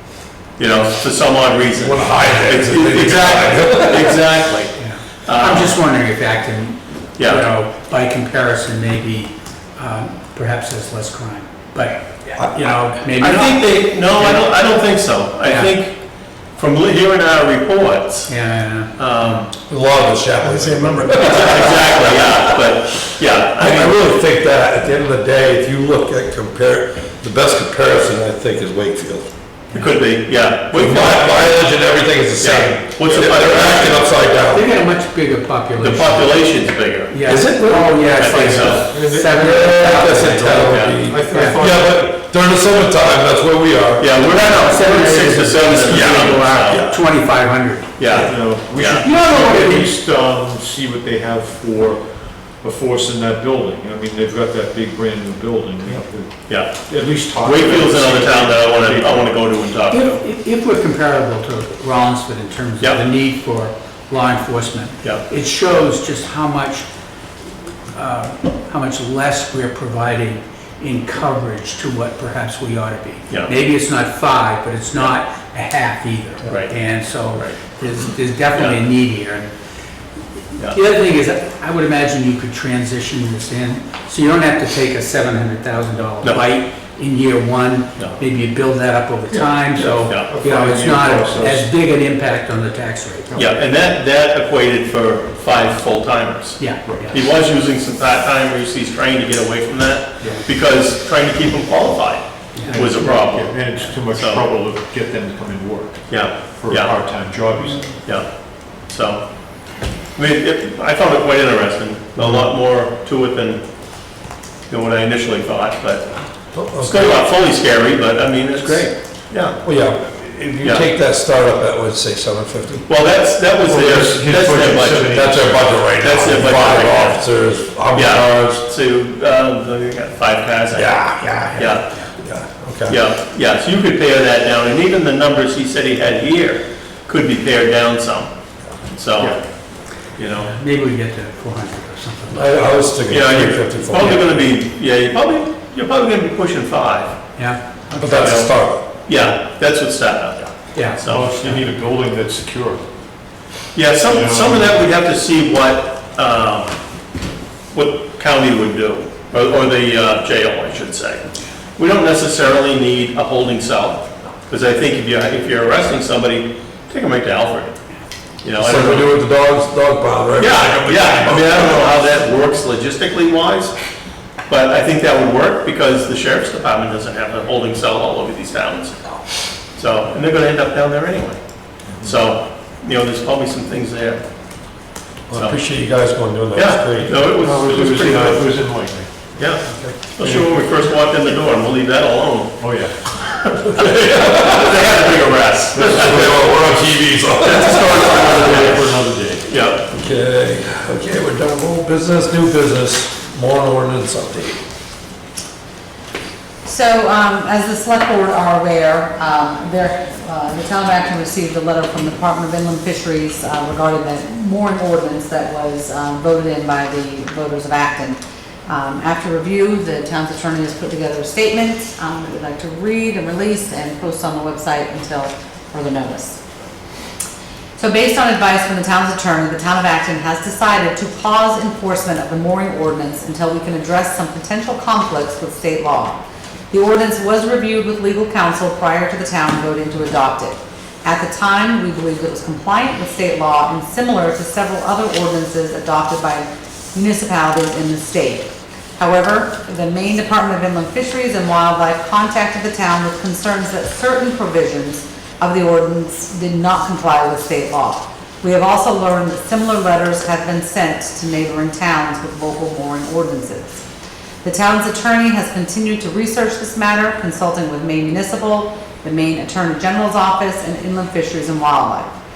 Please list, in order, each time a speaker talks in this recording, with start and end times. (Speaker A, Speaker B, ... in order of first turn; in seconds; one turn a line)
Speaker A: 0.6-5.8
Speaker B: 1.8-4.2
Speaker C: 4.8-14.5
Speaker A: 7.2-7.5
Speaker A: 13.2-16.0
Speaker C: 15.4-15.7
Speaker A: 16.6-18.3
Speaker C: 18.3-19.4
Speaker A: 19.0-19.5
Speaker B: 19.7-22.4
Speaker A: 21.1-24.0
Speaker B: 23.6-29.3
Speaker A: 29.7-31.6
Speaker B: 30.7-34.7
Speaker A: 32.4-34.4
Speaker C: 34.5-41.6
Speaker A: 35.8-37.4
Speaker B: 37.3-38.3
Speaker A: 38.2-38.9
Speaker D: 39.0-39.4
Speaker B: 39.1-44.1
Speaker A: 40.6-41.0
Speaker D: 40.9-42.0
Speaker A: 44.0-47.0
Speaker C: 44.2-48.3
Speaker A: 48.0-49.1
Speaker D: 48.1-59.5
Speaker C: 49.0-49.9
Speaker A: 56.5-60.2
Speaker C: 59.9-66.9
Speaker C: 67.9-79.5
Speaker A: 76.5-76.8
Speaker A: 77.3-77.8
Speaker A: 78.5-78.8
Speaker C: 80.7-93.4
Speaker A: 86.2-86.5
Speaker D: 89.5-91.7
Speaker D: 93.3-93.6
Speaker A: 93.4-103.6
Speaker C: 96.6-97.2
Speaker C: 102.5-102.9
Speaker D: 102.7-108.0
Speaker A: 104.1-104.4
Speaker A: 106.1-106.9
Speaker A: 108.0-108.3
Speaker A: 108.9-109.2
Speaker A: 110.2-113.6
Speaker A: 114.7-116.1
Speaker B: 116.5-117.3
Speaker A: 116.8-119.6
Speaker B: 119.6-122.9
Speaker A: 120.6-120.9
Speaker A: 122.9-125.3
Speaker D: 123.6-125.6
Speaker B: 124.0-128.6
Speaker A: 126.0-127.2
Speaker A: 127.9-131.0
Speaker B: 130.7-133.0
Speaker A: 131.6-131.8
Speaker A: 132.9-138.3
Speaker A: 138.9-139.4
Speaker A: 140.2-140.5
Speaker C: 140.4-142.8
Speaker B: 142.3-144.5
Speaker A: 143.1-147.2
Speaker C: 147.4-148.3
Speaker B: 148.0-148.8
Speaker A: 148.1-148.5
Speaker A: 149.1-151.6
Speaker C: 150.8-151.0
Speaker D: 151.0-152.8
Speaker A: 153.7-156.7
Speaker D: 154.0-154.8
Speaker A: 157.7-161.3
Speaker A: 161.8-167.8
Speaker A: 168.4-169.1
Speaker B: 168.6-172.0
Speaker A: 170.4-173.7
Speaker A: 174.5-179.1
Speaker A: 179.8-181.4
Speaker D: 181.9-182.2
Speaker A: 182.0-184.2
Speaker B: 185.3-187.5
Speaker A: 186.5-188.5
Speaker D: 187.4-189.1
Speaker A: 189.4-192.6
Speaker B: 189.6-190.0
Speaker D: 190.2-190.5
Speaker D: 192.6-192.9
Speaker A: 193.2-196.4
Speaker B: 193.7-194.8
Speaker D: 195.8-196.4
Speaker B: 195.8-198.9
Speaker D: 197.4-199.5
Speaker A: 199.4-199.9
Speaker B: 199.9-204.6
Speaker E: 206.6-226.4
Speaker E: 227.8-263.9
Speaker E: 264.4-272.1